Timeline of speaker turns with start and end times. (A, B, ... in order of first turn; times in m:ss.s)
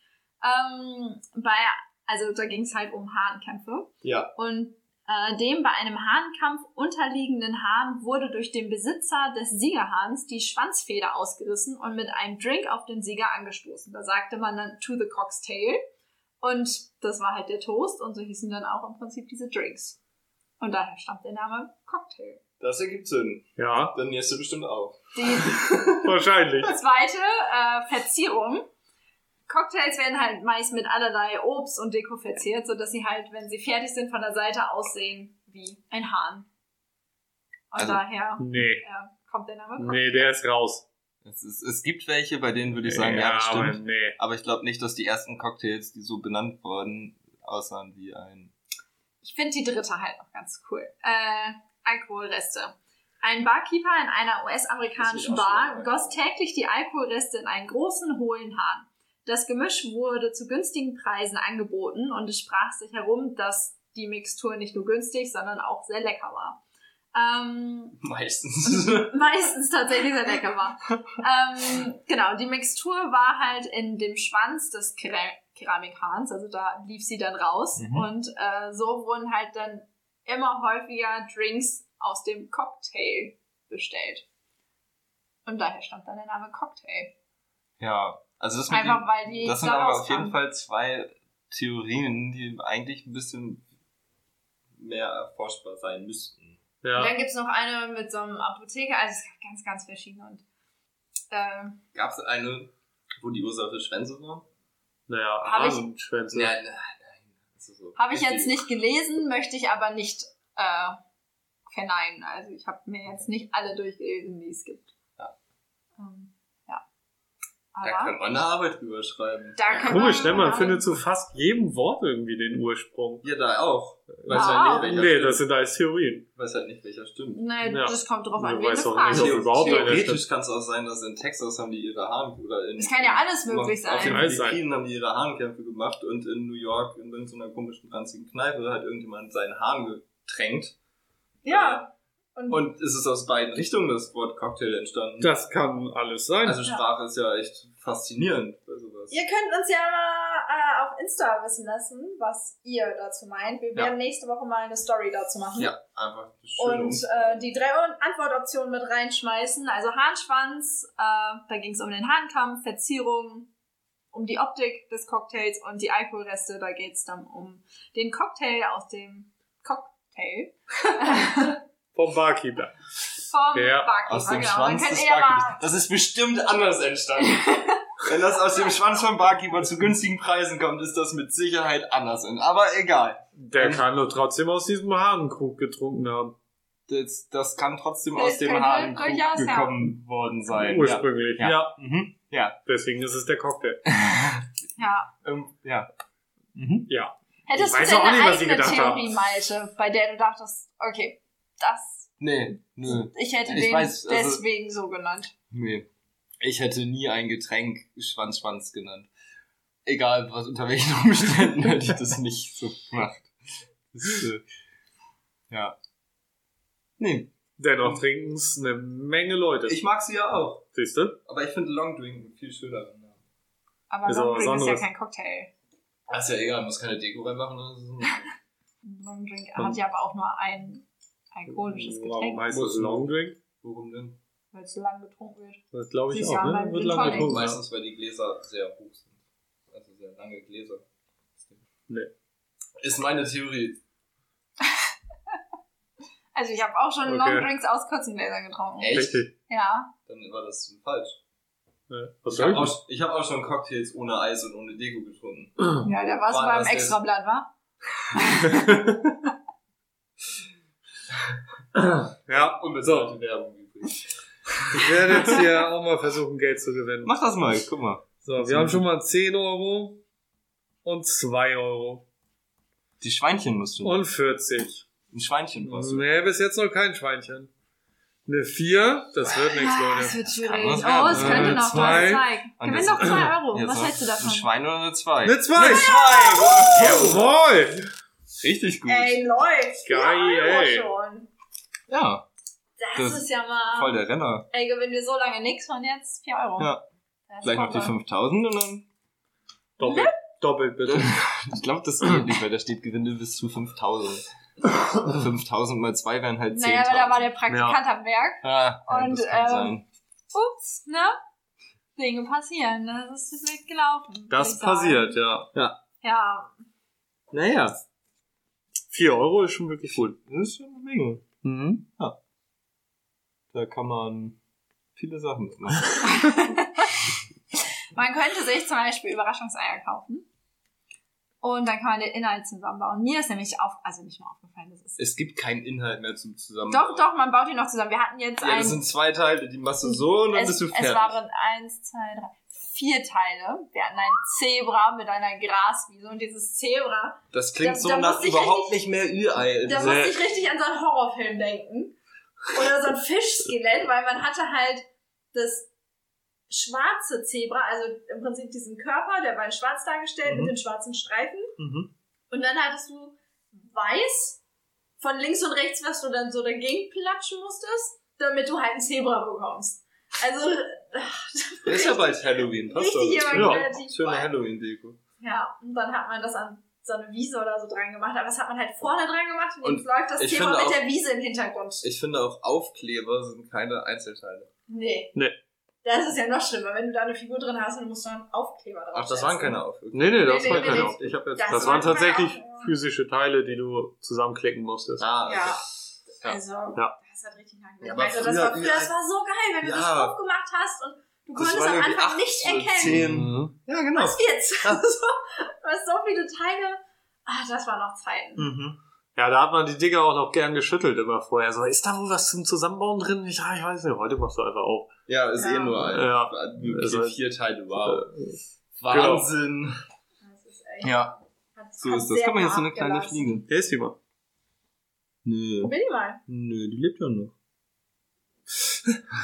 0:00.4-0:15.8 A
0:04.0-0:04.3 B
0:16.4-0:20.0 A
0:20.6-0:22.4 A
0:22.6-0:26.1 B
0:23.6-0:24.0 C
0:25.2-0:25.7 A
0:26.0-0:26.7 C
0:26.6-0:28.7 A
0:29.5-0:36.5 A
0:37.7-0:40.3 A
0:38.4-0:38.8 C
0:39.8-0:40.8 C
0:41.2-0:48.5 B
0:42.8-0:44.2 C
0:49.2-1:06.6 A
0:55.0-0:56.2 B
1:07.1-1:08.0 A
1:08.0-1:09.3 B
1:08.6-1:24.2 A
1:17.8-1:18.1 B
1:25.4-1:27.1 A
1:27.8-1:33.6 B
1:28.7-1:30.4 A
1:34.8-1:36.6 B
1:36.8-1:37.1 C
1:37.0-1:40.4 A
1:41.3-1:41.8 A
1:41.9-1:44.4 B
1:45.1-1:46.6 C
1:45.4-1:45.9 A
1:46.3-1:48.6 B
1:48.0-1:51.0 A
1:51.7-1:54.9 A
1:56.0-1:56.8 A
1:57.7-1:58.1 A
1:57.8-2:00.2 B
1:59.6-2:00.8 A
1:59.7-2:03.3 C
2:03.2-2:05.4 B
2:04.2-2:06.3 C
2:04.3-2:05.0 A
2:06.4-2:07.4 B
2:07.3-2:10.0 A
2:07.7-2:10.2 C
2:09.1-2:20.8 B
2:12.8-2:14.3 A
2:14.0-2:14.6 C
2:21.4-2:22.6 A
2:21.5-2:21.9 B
2:22.5-2:25.3 B
2:25.2-2:26.6 C
2:26.4-2:29.2 B
2:29.1-2:35.7 A
2:35.6-2:37.5 B
2:36.6-2:43.5 A
2:44.1-2:51.6 A
2:51.9-2:52.8 C
2:53.3-2:55.6 A
2:53.5-2:53.9 C
2:54.1-2:57.5 B
2:57.2-2:57.8 A
2:58.0-3:03.9 B
3:03.4-3:06.4 C
3:06.9-3:12.6 B
3:08.1-3:09.8 A
3:10.5-3:11.8 C
3:12.7-3:13.8 C
3:13.9-3:14.5 B
3:14.8-3:15.1 A
3:15.2-3:15.9 B
3:16.6-3:16.9 B
3:16.9-3:19.1 C
3:17.5-3:22.2 A
3:22.2-3:24.4 B
3:22.7-3:25.3 A
3:25.5-3:25.9 B
3:26.4-3:29.1 B
3:29.8-3:34.4 B
3:35.5-3:35.8 B
3:37.0-3:37.3 B
3:37.6-3:39.8 C
3:39.7-3:40.6 B
3:40.7-3:41.2 C
3:41.3-3:43.2 B
3:43.9-3:45.5 A
3:44.0-3:44.9 C
3:46.1-3:48.3 B
3:48.8-3:52.5 A
3:51.5-3:53.4 C
3:52.5-3:54.2 B
3:54.5-3:57.4 A
3:55.7-3:57.6 C
3:57.0-4:00.8 B
4:02.8-4:03.8 B
4:04.6-4:05.4 A
4:06.4-4:09.9 A
4:07.0-4:07.5 C
4:08.8-4:09.3 B
4:08.9-4:09.3 C
4:10.1-4:11.2 B
4:11.9-4:12.8 C
4:12.3-4:15.7 B
4:15.8-4:17.5 A
4:16.3-4:17.0 B
4:18.1-4:18.7 A
4:18.4-4:19.1 C
4:21.1-4:21.4 B
4:21.8-4:23.1 C
4:22.3-4:25.4 B
4:24.7-4:27.1 C
4:27.0-4:28.8 B
4:28.2-4:30.0 C
4:30.8-4:32.0 C
4:33.0-4:34.0 B
4:33.8-4:34.9 C
4:35.1-4:36.0 B
4:35.6-4:37.5 C
4:38.3-4:40.2 C
4:39.5-4:44.5 A
4:40.3-4:47.3 B
4:41.1-4:42.3 C
4:45.2-4:46.0 C
4:45.6-4:47.1 A
4:46.7-4:47.9 C
4:48.4-4:49.2 B
4:48.9-4:51.3 A
4:49.8-4:50.9 C
4:51.9-4:52.3 B
4:52.8-4:54.0 A
4:53.0-4:54.5 B
4:54.5-4:56.7 A
4:56.6-4:56.8 B
4:57.3-4:58.0 A
4:57.4-4:58.9 B
4:59.8-5:01.1 C
4:59.8-5:00.1 A
5:00.8-5:04.3 B
5:04.8-5:07.3 B
5:06.5-5:09.7 A
5:07.5-5:07.8 C
5:08.4-5:09.8 B
5:10.3-5:11.2 A
5:12.0-5:15.2 A
5:14.3-5:15.5 C
5:16.0-5:16.5 A
5:17.3-5:17.8 B
5:18.9-5:20.2 C
5:20.0-5:21.2 B
5:21.4-5:21.9 C
5:23.5-5:24.4 B
5:25.0-5:26.3 B
5:26.0-5:30.3 A
5:31.4-5:35.0 A
5:35.0-5:37.0 B
5:36.7-5:38.8 A
5:38.4-5:41.2 B
5:39.8-5:48.8 A
5:47.3-5:50.2 B
5:49.7-5:52.0 A
5:49.8-5:50.2 C
5:52.5-5:55.7 A
5:56.5-6:01.5 A
6:00.3-6:00.5 B
6:01.6-6:01.9 B
6:02.3-6:04.4 A
6:05.0-6:14.3 A
6:11.6-6:15.0 B
6:13.3-6:13.6 C
6:15.2-6:21.9 A
6:19.6-6:20.8 B
6:21.8-6:24.5 B
6:24.7-6:25.1 A
6:25.8-6:29.6 A
6:28.9-6:32.0 B
6:29.9-6:35.0 C
6:30.2-6:32.7 A
6:35.0-6:35.6 B
6:35.3-6:43.0 A
6:37.8-6:38.9 B
6:39.6-6:40.1 B
6:41.4-6:44.8 B
6:42.9-6:43.5 C
6:44.0-6:48.5 A
6:48.4-6:48.8 B
6:49.2-6:54.9 C
6:55.1-6:58.1 B
6:55.4-6:55.9 A
6:55.9-6:57.2 C
6:57.8-6:59.3 C
6:58.8-6:59.8 B
7:00.2-7:03.3 A
7:00.8-7:01.1 B
7:01.8-7:03.5 B
7:03.5-7:04.0 C
7:05.2-7:05.7 B
7:05.6-7:06.2 A
7:06.3-7:07.3 B